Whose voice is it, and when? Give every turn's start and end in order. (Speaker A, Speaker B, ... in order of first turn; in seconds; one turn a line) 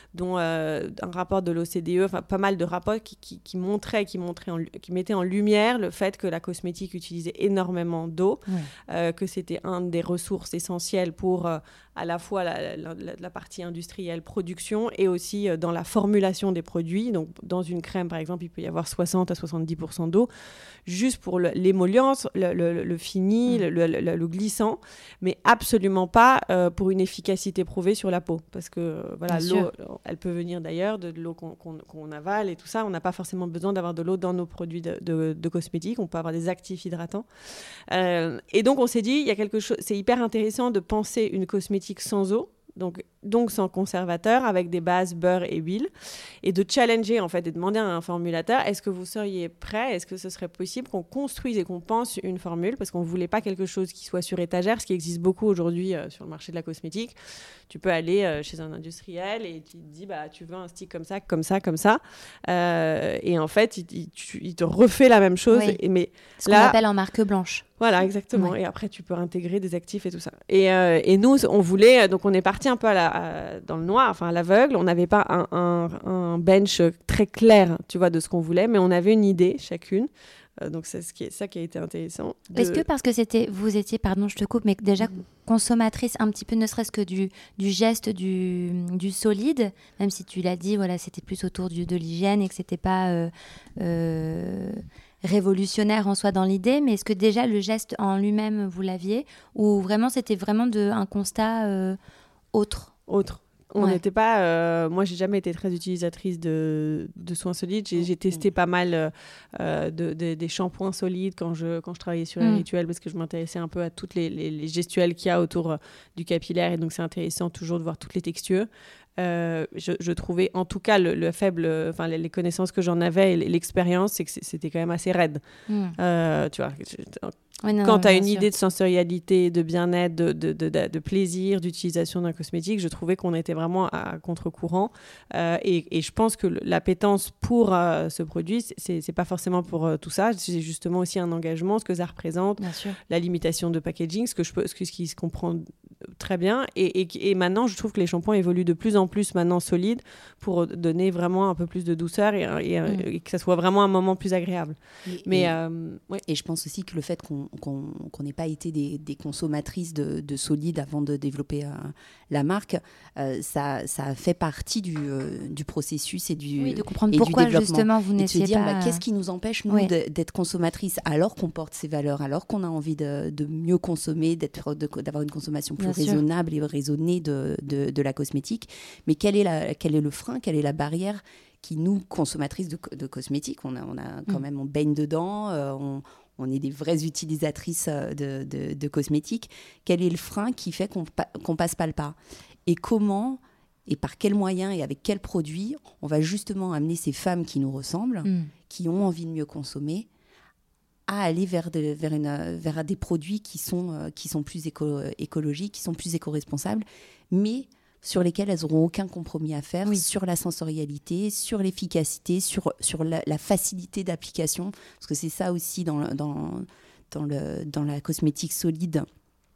Speaker A: 0.1-20.3
Speaker A: 20.9-37.3
Speaker B: 29.3-29.7
Speaker A: 37.9-45.9
Speaker A: 46.4-57.1
Speaker A: 57.7-66.8
Speaker B: 65.5-65.8
Speaker B: 66.4-67.7
Speaker A: 67.8-82.8
Speaker B: 82.5-102.0
Speaker B: 102.5-102.9
Speaker A: 103.1-125.4
Speaker B: 125.7-126.0
Speaker A: 126.0-156.2
Speaker B: 127.6-128.5
Speaker B: 142.6-143.0
Speaker C: 155.1-155.6
Speaker C: 156.2-200.1
Speaker B: 166.6-169.0
Speaker B: 175.8-176.2
Speaker B: 198.2-198.5
Speaker C: 201.1-219.1